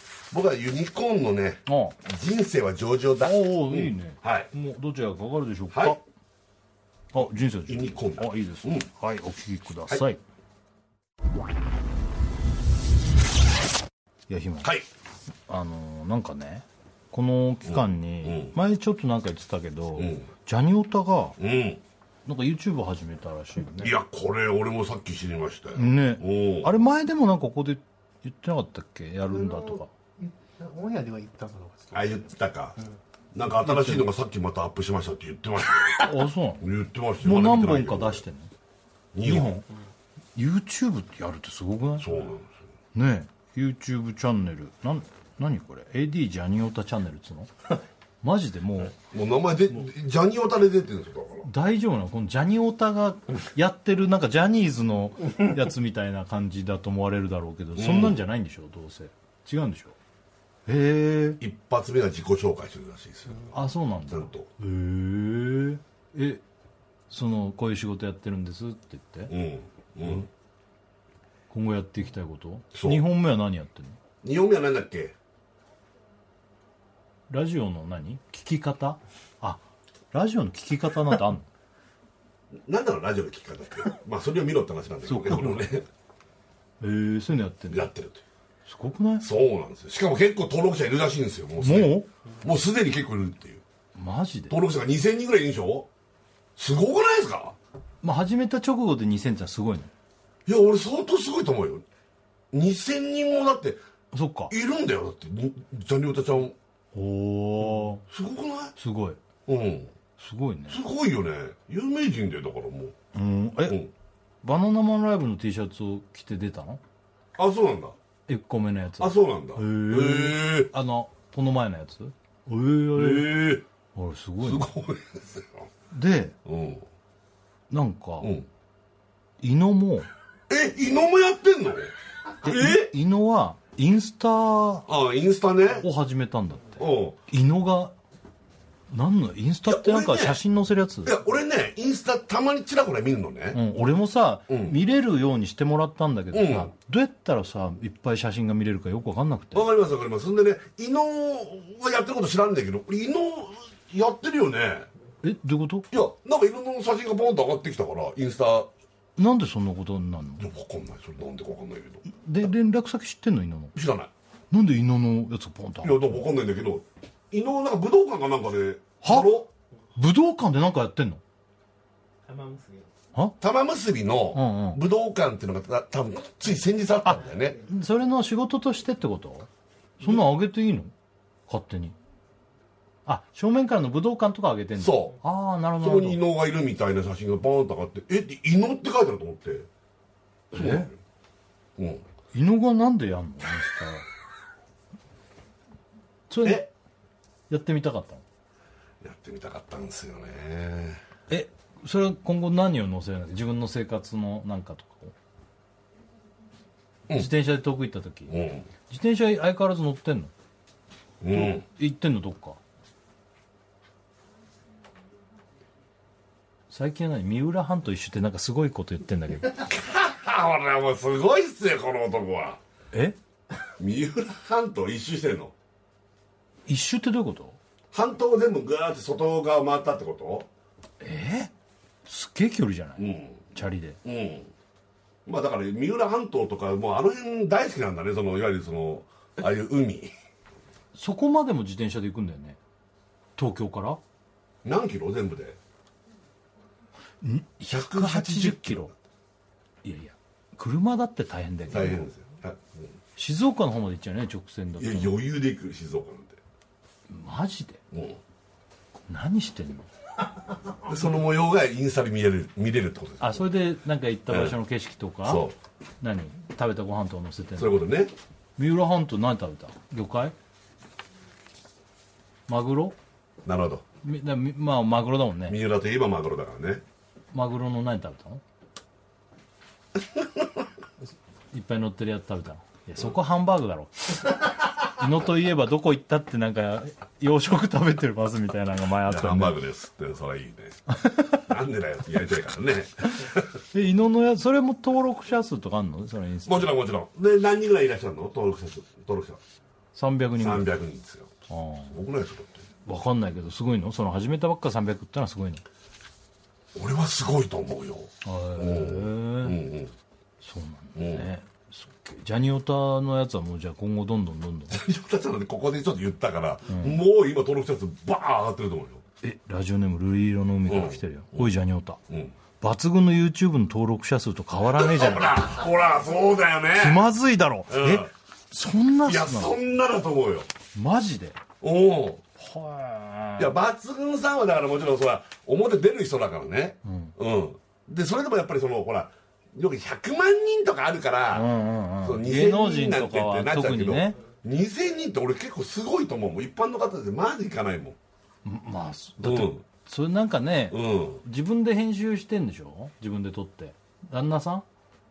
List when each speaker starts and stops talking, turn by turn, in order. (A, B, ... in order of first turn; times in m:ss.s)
0:00.3-0:04.5 A
0:01.7-0:02.0 B
0:03.2-0:06.0 B
0:05.7-0:06.0 A
0:07.1-0:10.2 B
0:07.2-0:08.9 A
0:14.3-0:14.7 B
0:15.5-0:21.4 B
0:17.6-0:18.6 A
0:20.0-0:20.3 A
0:21.4-0:21.8 A
0:22.2-0:23.9 B
0:23.8-0:26.7 A
0:25.7-0:29.9 B
0:29.3-0:32.2 C
0:31.9-0:32.8 A
0:33.3-0:36.1 A
0:33.6-0:34.0 B
0:36.0-0:36.6 B
0:36.6-0:38.2 A
0:37.2-0:38.5 B
0:39.1-0:39.5 A
0:39.2-0:39.6 B
0:40.4-0:42.1 B
0:42.0-0:42.5 A
0:42.9-0:47.5 B
0:48.2-0:48.9 B
0:49.0-0:51.5 A
0:51.4-0:59.9 B
0:57.8-0:58.2 A
1:00.7-1:01.4 B
1:01.4-1:04.5 A
1:03.5-1:06.4 B
1:07.1-1:09.3 B
1:09.3-1:10.3 A
1:11.5-1:14.0 B
1:12.7-1:13.0 A
1:14.2-1:15.1 A
1:17.3-1:21.5 B
1:22.6-1:25.8 A
1:25.0-1:25.7 B
1:26.8-1:27.9 B
1:27.7-1:28.2 A
1:28.6-1:29.3 B
1:29.2-1:33.6 A
1:31.6-1:32.1 B
1:34.0-1:34.6 B
1:34.5-1:35.9 A
1:36.6-1:37.6 A
1:38.0-1:39.9 B
1:40.4-1:41.8 A
1:42.5-1:43.8 A
1:44.1-1:44.5 B
1:44.5-1:46.6 A
1:46.9-1:48.0 B
1:48.1-1:48.7 A
1:48.8-1:49.2 B
1:49.4-1:49.9 A
1:50.2-1:50.8 B
1:50.7-1:52.9 A
1:53.1-1:53.8 B
1:54.4-1:56.8 B
1:57.4-1:57.9 A
1:58.3-2:03.4 B
1:59.0-2:00.7 A
2:02.9-2:03.6 A
2:03.9-2:04.7 B
2:04.4-2:05.7 A
2:05.9-2:06.3 B
2:06.4-2:06.8 A
2:07.7-2:08.3 B
2:08.2-2:08.5 A
2:09.4-2:10.1 B
2:10.5-2:12.9 A
2:12.4-2:14.8 B
2:14.9-2:15.8 A
2:15.8-2:17.9 B
2:16.8-2:17.2 A
2:18.9-2:21.1 B
2:19.6-2:20.4 A
2:21.0-2:23.6 A
2:23.5-2:29.7 B
2:24.5-2:24.8 A
2:26.3-2:26.7 A
2:29.5-2:34.9 A
2:35.2-2:35.9 B
2:35.9-2:38.7 A
2:39.2-2:40.4 B
2:40.4-2:42.0 A
2:42.1-2:43.7 B
2:43.7-2:44.1 A
2:44.5-2:46.2 B
2:45.8-2:49.5 A
2:49.0-2:49.3 B
2:50.0-2:51.2 B
2:52.2-2:52.9 C
2:53.4-2:57.6 A
2:54.3-2:54.8 B
2:57.0-2:59.5 B
3:00.0-3:00.9 B
3:01.5-3:01.9 B
3:03.0-3:06.2 B
3:04.8-3:05.2 A
3:05.8-3:09.7 A
3:10.5-3:10.9 B
3:10.5-3:10.9 A
3:11.8-3:12.0 A
3:12.3-3:14.0 B
3:16.3-3:16.7 B
3:16.4-3:16.7 A
3:17.5-3:18.2 B
3:19.0-3:21.0 A
3:21.3-3:25.1 B
3:27.1-3:28.4 B
3:28.3-3:28.7 A
3:28.9-3:30.3 B
3:31.2-3:31.6 A
3:31.3-3:32.6 B
3:36.7-3:39.6 B
3:39.6-3:42.6 A
3:42.9-3:43.2 B
3:43.8-3:45.5 A
3:46.7-3:47.6 B
3:47.9-3:50.5 A
3:51.0-3:51.5 B
3:52.0-3:54.0 B
3:53.0-3:53.5 A
3:54.0-3:54.5 A
3:55.2-4:00.1 A
4:00.9-4:02.6 B
4:03.4-4:04.0 B
4:04.6-4:05.6 A
4:07.2-4:08.9 B
4:07.7-4:08.9 A
4:09.8-4:12.1 B
4:11.7-4:12.9 A
4:13.2-4:15.2 B
4:14.8-4:16.4 A
4:17.1-4:17.8 B
4:17.9-4:18.2 A
4:19.1-4:19.9 B
4:20.8-4:23.5 A
4:23.2-4:25.4 B
4:24.3-4:24.6 A
4:25.2-4:25.6 A
4:26.0-4:27.8 B
4:27.6-4:28.1 A
4:28.6-4:30.3 B
4:32.5-4:33.0 B
4:33.4-4:33.8 A
4:34.0-4:35.6 B
4:35.5-4:36.8 A
4:37.3-4:38.4 B
4:41.5-4:49.6 B
4:49.0-4:50.8 A
4:51.0-4:51.4 B
4:51.3-4:53.6 A
4:53.7-4:56.8 B
4:56.4-4:59.4 A
4:59.9-5:00.7 B
5:00.4-5:01.3 A
5:01.5-5:01.9 B
5:01.9-5:02.7 A
5:02.8-5:05.6 B
5:06.7-5:09.9 A
5:08.2-5:09.6 B
5:10.4-5:14.8 B
5:11.0-5:11.3 A
5:14.7-5:19.0 A
5:16.7-5:17.0 B
5:19.2-5:22.0 B
5:20.7-5:21.5 A
5:22.1-5:22.3 A
5:22.6-5:25.4 B
5:24.6-5:27.0 A
5:26.8-5:29.6 B
5:27.7-5:28.1 A
5:29.0-5:30.5 A
5:30.7-5:31.4 B
5:31.6-5:32.2 A
5:32.4-5:33.5 B
5:33.4-5:41.5 A
5:36.8-5:37.1 B
5:41.3-5:44.2 B
5:42.0-5:48.0 A
5:48.4-5:54.6 B
5:49.2-5:49.6 A
5:50.7-5:51.2 A